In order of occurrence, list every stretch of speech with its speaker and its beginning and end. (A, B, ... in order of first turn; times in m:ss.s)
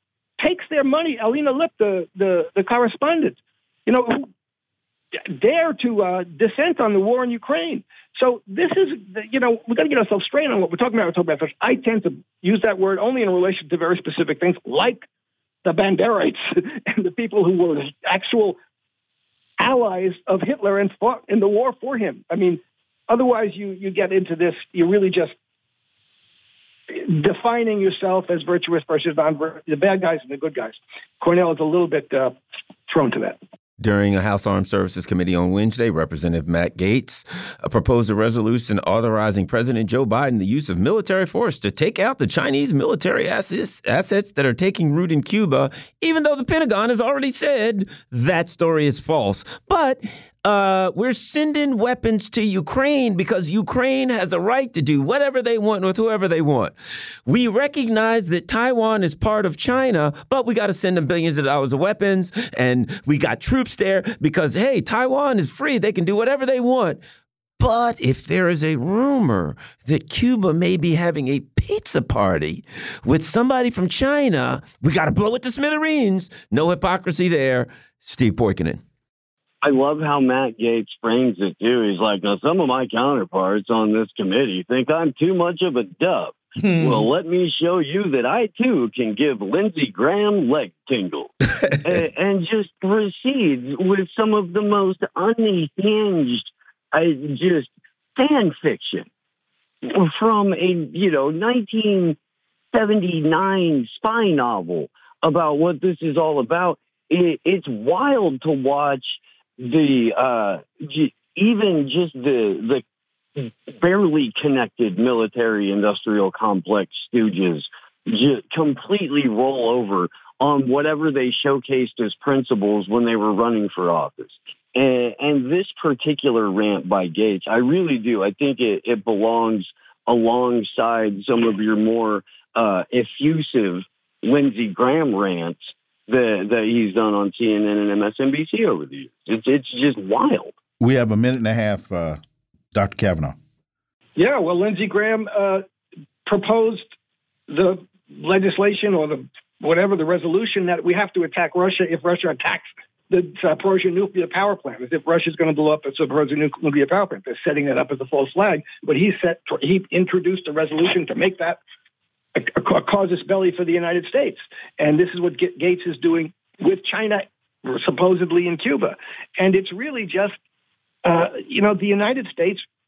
0:00.4-0:04.3 A
0:05.2-0:15.1 A
0:15.6-0:18.6 A
0:19.6-0:25.4 A
0:26.9-0:32.4 A
0:32.9-0:33.4 A
0:33.8-0:56.7 B
0:57.3-1:07.0 B
1:07.6-1:18.8 B
1:19.6-1:39.1 C
1:26.6-1:27.1 D
1:39.8-1:42.2 C
1:42.7-1:52.8 C
1:53.4-2:20.5 C
2:20.8-2:22.2 D
2:22.7-2:23.4 D
2:24.2-2:25.6 A
2:26.3-2:26.9 A
2:27.5-2:41.6 A
2:42.4-2:50.4 A
2:51.0-2:52.6 A